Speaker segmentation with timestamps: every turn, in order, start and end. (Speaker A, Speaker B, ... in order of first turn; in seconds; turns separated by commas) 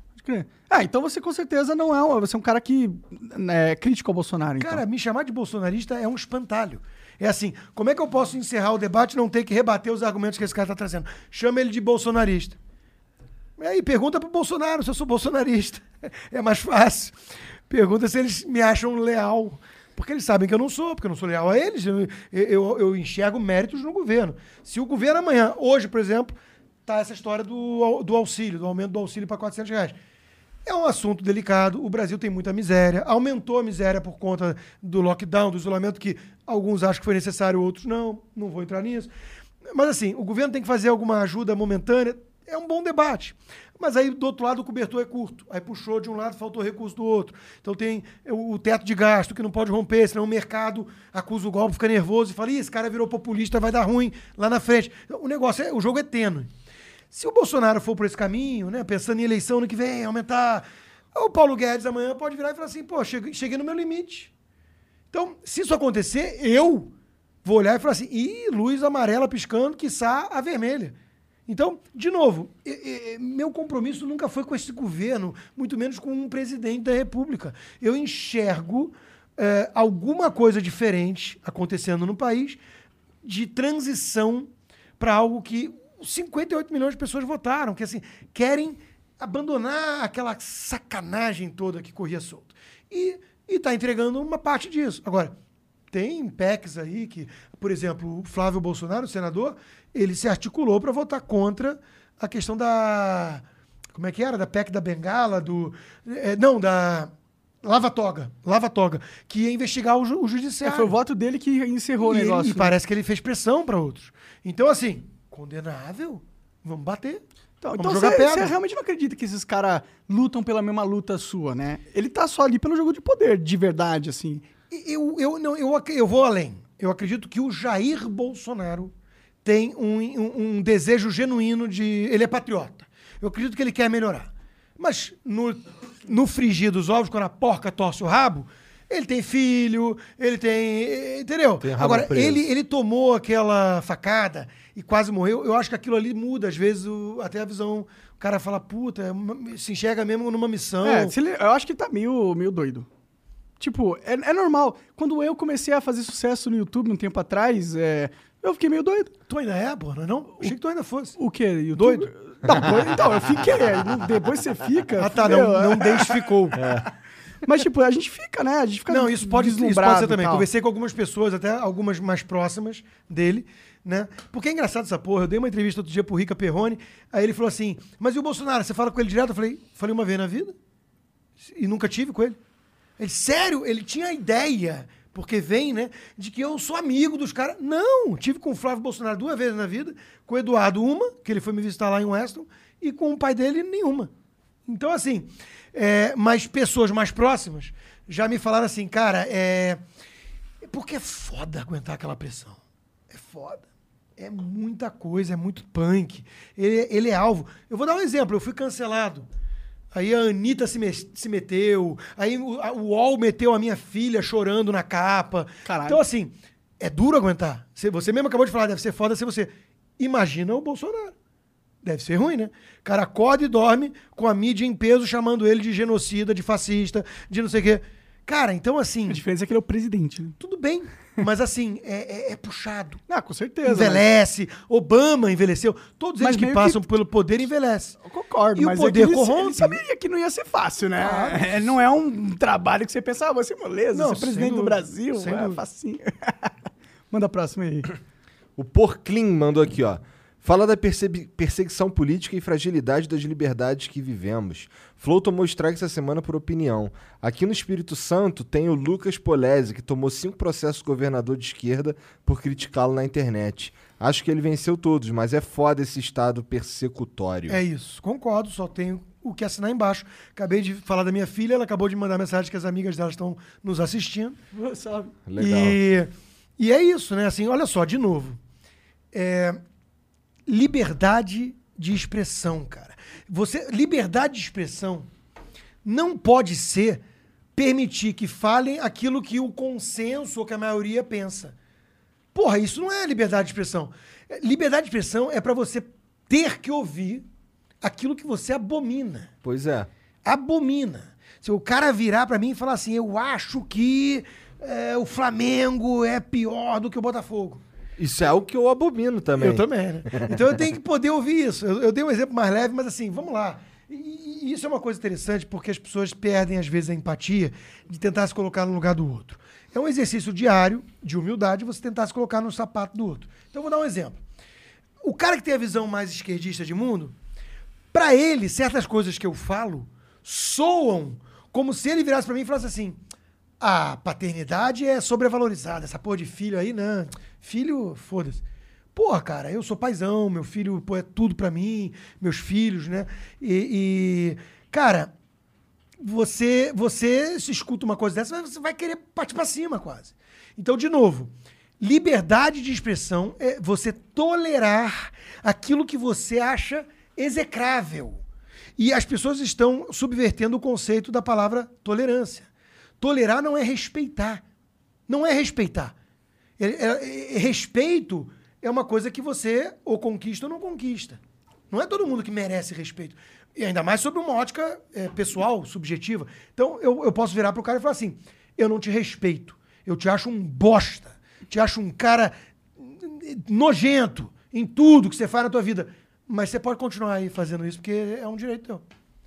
Speaker A: 0.2-4.8, Speaker B: 4.6-12.6, Speaker B: 13.6-17.2, Speaker B: 17.7-30.0, Speaker B: 30.7-39.1, Speaker B: 39.7-56.5, Speaker B: 57.1-64.3, Speaker B: 65.1-66.9, Speaker B: 67.5-71.0, Speaker B: 71.5-82.6, Speaker B: 83.2-95.3, Speaker B: 95.9-103.4, Speaker B: 103.9-107.1, Speaker B: 107.6-111.0, Speaker A: 110.6-112.7, Speaker B: 112.0-117.2, Speaker A: 117.6-124.5, Speaker B: 117.8-118.5, Speaker B: 124.7-128.9, Speaker B: 129.4-151.2, Speaker C: 141.6-142.5, Speaker A: 150.8-152.9, Speaker A: 153.6-159.1, Speaker B: 159.3-161.2, Speaker A: 161.2-166.2, Speaker B: 161.7-162.1, Speaker B: 165.0-166.6, Speaker C: 166.6-166.8, Speaker A: 167.4-170.5, Speaker B: 168.9-180.6, Speaker B: 181.4-182.4, Speaker B: 183.0-194.1, Speaker B: 194.7-199.8, Speaker B: 200.6-202.6, Speaker B: 203.1-203.7, Speaker B: 204.2-209.3, Speaker B: 209.9-221.1, Speaker A: 215.7-216.0, Speaker B: 221.8-229.2, Speaker A: 229.1-230.4, Speaker B: 230.4-233.0, Speaker A: 233.1-234.0, Speaker B: 233.6-238.0, Speaker A: 236.2-236.8, Speaker A: 238.0-246.5, Speaker B: 238.6-239.8, Speaker B: 241.0-241.7, Speaker B: 243.9-245.6, Speaker A: 247.1-247.9, Speaker C: 248.6-267.6, Speaker B: 267.5-274.4, Speaker A: 274.5-275.1, Speaker C: 275.3-275.8, Speaker B: 275.4-278.4, Speaker B: 279.1-279.6, Speaker B: 280.5-285.1, Speaker B: 285.9-287.0, Speaker B: 287.6-291.6, Speaker B: 292.4-297.3, Speaker B: 297.8-299.3, Speaker C: 299.4-299.9, Speaker B: 300.2-307.6, Speaker C: 308.0-310.4, Speaker B: 309.4-324.2, Speaker B: 325.0-327.1, Speaker B: 327.9-333.0, Speaker B: 333.6-338.4, Speaker B: 338.9-345.1, Speaker B: 346.0-358.2, Speaker B: 358.8-362.5, Speaker B: 363.0-364.4, Speaker B: 365.1-365.9, Speaker B: 366.6-371.2, Speaker B: 371.7-388.8